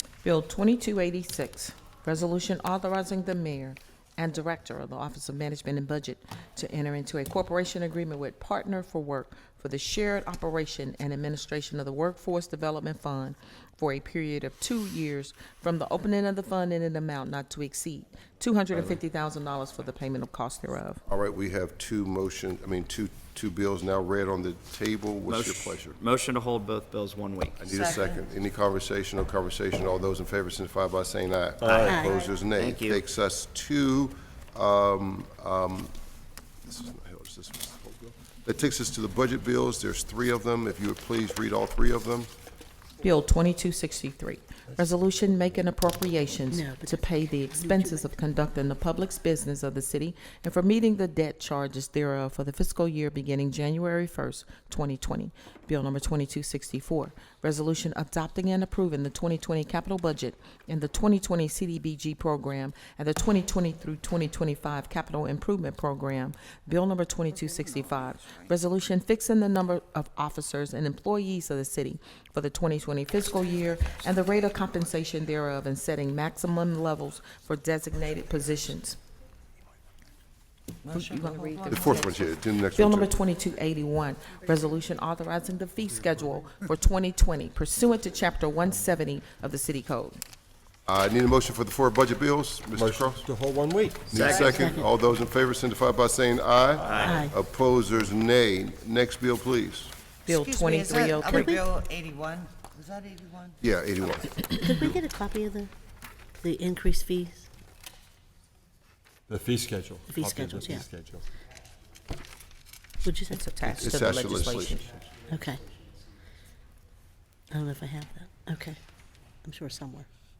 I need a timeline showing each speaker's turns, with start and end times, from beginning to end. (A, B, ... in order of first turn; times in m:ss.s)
0:00.2-0:21.0 A
0:21.1-0:26.0 B
0:25.3-0:27.4 C
0:27.6-0:35.9 B
0:27.6-0:28.2 D
0:31.6-0:32.1 E
0:31.8-0:32.3 F
0:32.6-0:33.0 C
0:36.6-0:42.3 B
0:43.0-1:19.0 A
0:46.5-0:48.1 F
1:07.5-1:08.5 D
1:20.8-1:22.2 D
1:20.9-1:30.2 A
1:21.7-1:23.1 B
1:30.9-1:33.2 B
1:32.7-1:34.4 E
1:34.1-1:39.9 B
1:34.2-1:34.9 F
1:37.0-1:37.3 F
1:40.3-1:41.7 A
1:40.3-1:43.6 D
1:43.6-1:44.9 B
1:44.6-1:45.7 F
1:46.4-1:47.5 F
1:49.3-1:51.2 E
1:50.1-1:50.9 F
1:53.0-1:53.5 F
1:53.3-1:54.9 A
1:53.6-1:54.8 B
1:55.3-1:55.6 F
1:57.5-1:58.8 F
1:59.4-2:00.1 F